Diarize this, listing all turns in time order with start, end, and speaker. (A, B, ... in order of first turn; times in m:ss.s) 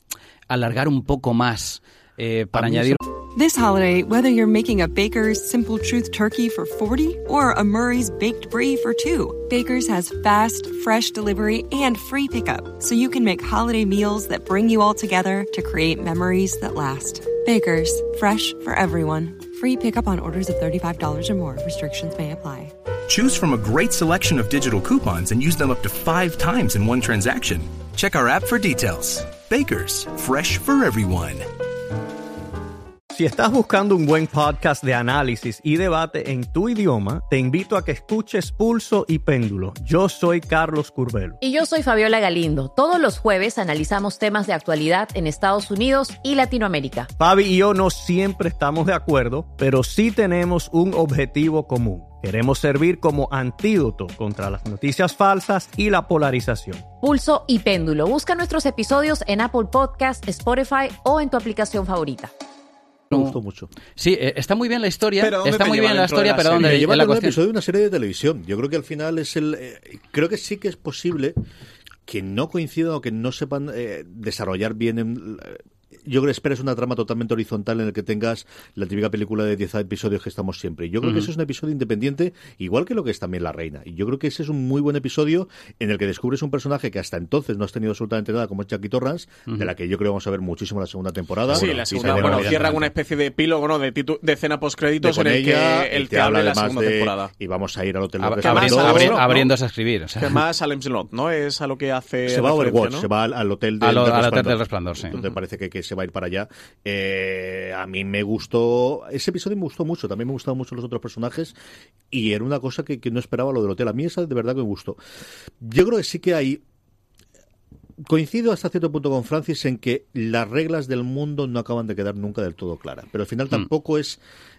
0:00.5-0:03.0 A
0:02.5-0:03.0 B
0:03.3-0:22.7 C
0:23.1-0:31.4 D
0:33.1-0:41.4 E
0:41.4-0:47.1 F
0:47.2-0:56.9 E
0:57.0-1:02.3 F
1:03.1-1:03.7 B
1:04.0-1:07.4 A
1:05.2-1:06.8 G
1:06.6-1:11.4 B
1:12.1-1:32.7 B
1:21.0-1:21.3 A
1:31.5-1:32.9 A
1:31.5-1:37.3 G
1:35.0-1:39.2 B
1:38.2-1:40.4 A
1:38.4-1:39.5 G
1:40.2-1:43.1 G
1:42.2-1:51.5 B
1:43.8-1:45.2 A
1:52.1-1:55.0 B
1:55.6-1:56.6 B
1:58.0-2:04.2 B